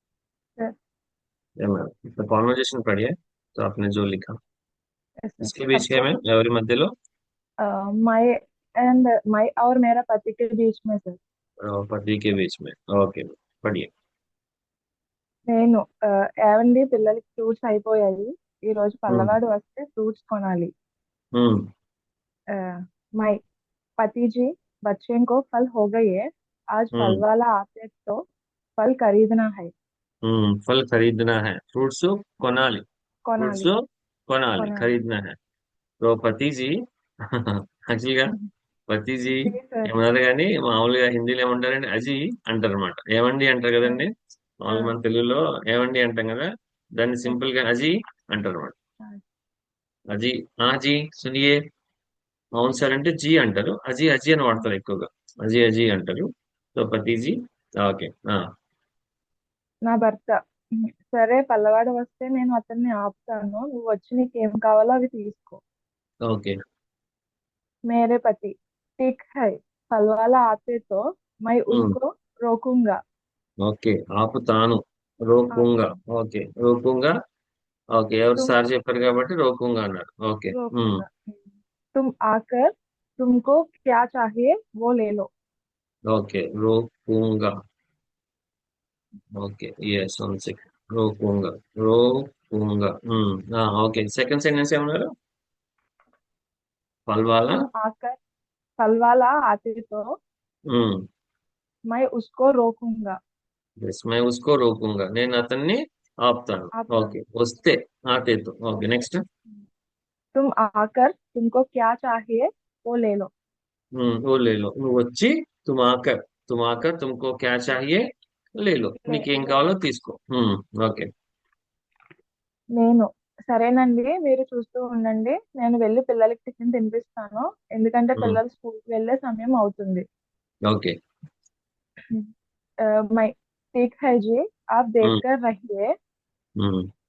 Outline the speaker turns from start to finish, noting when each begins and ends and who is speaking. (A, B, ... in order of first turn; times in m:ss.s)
0:01.6-0:04.4 A
0:05.2-0:06.1 B
0:05.4-0:06.9 A
0:07.6-0:11.2 B
0:11.7-0:13.9 A
0:15.5-0:20.7 B
0:21.4-0:21.6 A
0:22.6-0:23.4 B
0:24.0-0:28.2 B
0:26.9-0:27.2 A
0:28.8-0:29.7 B
0:30.2-0:32.8 A
0:33.3-0:33.7 B
0:33.4-0:33.8 A
0:34.3-0:35.4 A
0:34.6-0:34.9 B
0:36.0-0:36.7 A
0:37.3-0:38.4 A
0:38.9-0:48.7 A
0:39.5-0:39.9 B
0:44.7-0:45.0 B
0:50.1-0:51.6 A
0:52.6-0:58.4 A
0:59.9-1:00.4 B
1:01.1-1:05.6 B
1:06.2-1:06.6 A
1:07.9-1:13.0 B
1:11.7-1:12.0 A
1:13.6-1:17.1 A
1:15.5-1:16.0 B
1:18.0-1:21.0 A
1:20.5-1:25.3 B
1:26.1-1:27.5 A
1:29.4-1:35.1 A
1:37.1-1:37.7 A
1:37.8-1:38.2 B
1:38.8-1:40.1 B
1:40.7-1:41.0 A
1:41.9-1:43.2 B
1:43.8-1:49.2 A
1:46.7-1:47.2 B
1:50.4-1:53.3 B
1:54.0-1:58.0 A
1:58.6-2:01.1 A
1:59.0-1:59.6 B
2:02.8-2:10.0 B
2:10.7-2:10.9 A
2:13.1-2:15.9 B
2:16.6-2:16.9 A